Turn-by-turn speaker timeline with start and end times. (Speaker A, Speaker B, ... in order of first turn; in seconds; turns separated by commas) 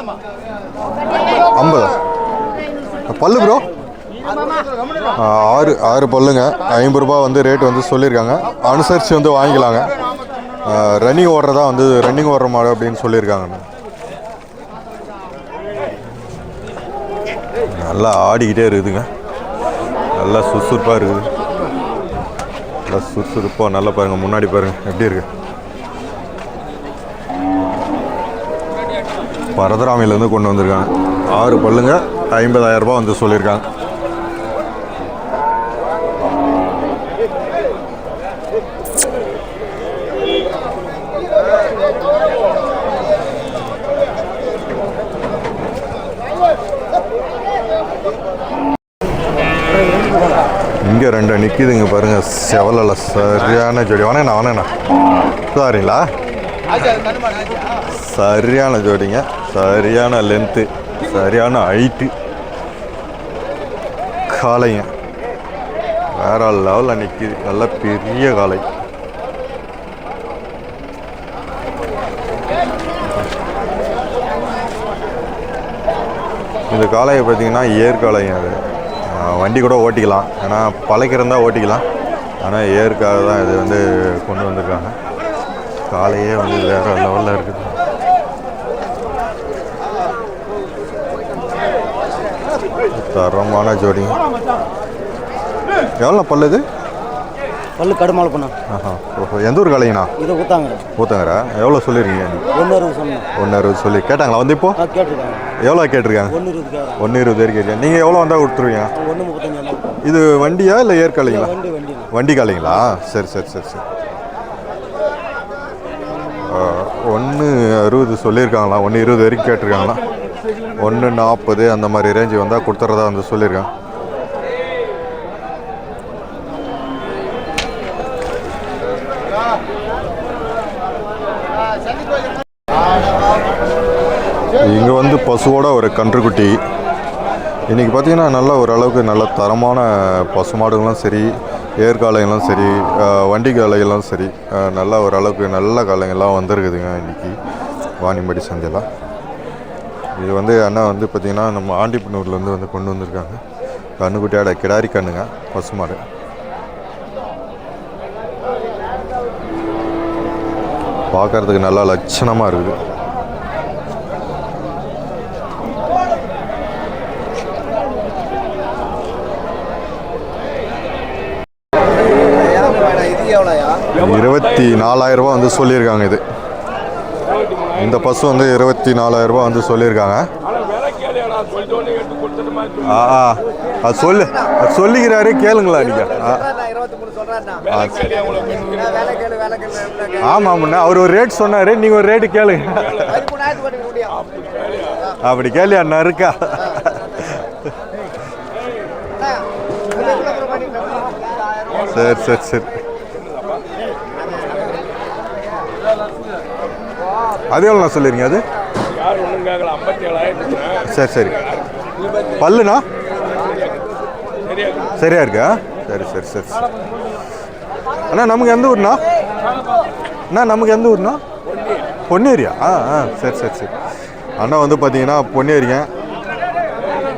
Speaker A: 1.5-2.0, Speaker A: 3.1-3.7, Speaker A: 5.2-9.9, Speaker A: 10.6-13.6, Speaker A: 17.8-19.1, Speaker A: 20.2-21.3, Speaker A: 22.9-25.3, Speaker A: 29.6-33.6, Speaker B: 49.8-50.4, Speaker A: 50.8-54.7, Speaker A: 55.5-56.1, Speaker A: 57.9-62.1, Speaker A: 64.3-64.9, Speaker A: 66.1-68.7, Speaker A: 76.7-81.8, Speaker A: 82.4-85.0, Speaker A: 85.9-87.8, Speaker A: 92.9-94.2, Speaker A: 96.0-96.6, Speaker B: 97.8-98.5, Speaker A: 98.7-100.1, Speaker B: 100.2-100.8, Speaker A: 101.0-102.5, Speaker B: 102.5-103.3, Speaker A: 103.4-104.8, Speaker B: 104.8-105.5, Speaker A: 105.6-106.4, Speaker B: 106.3-107.0, Speaker A: 107.0-108.9, Speaker B: 109.0-110.0, Speaker A: 110.0-111.5, Speaker B: 111.2-112.1, Speaker A: 112.1-113.8, Speaker A: 116.5-120.0, Speaker A: 120.8-123.7, Speaker A: 134.6-136.6, Speaker A: 137.7-147.4, Speaker A: 148.0-148.9, Speaker A: 150.2-153.4, Speaker A: 154.0-156.0, Speaker A: 161.1-162.8, Speaker A: 173.9-176.2, Speaker A: 177.7-180.3, Speaker C: 181.1-182.7, Speaker A: 182.8-186.5, Speaker A: 187.6-188.7, Speaker A: 190.2-193.3, Speaker C: 194.2-194.7, Speaker A: 195.2-197.5, Speaker A: 201.8-202.7, Speaker A: 207.5-208.4, Speaker C: 209.1-210.7, Speaker A: 210.8-211.4, Speaker A: 212.4-212.9, Speaker A: 215.0-216.7, Speaker A: 218.1-219.0, Speaker A: 220.3-221.2, Speaker A: 222.1-223.7, Speaker A: 224.4-225.9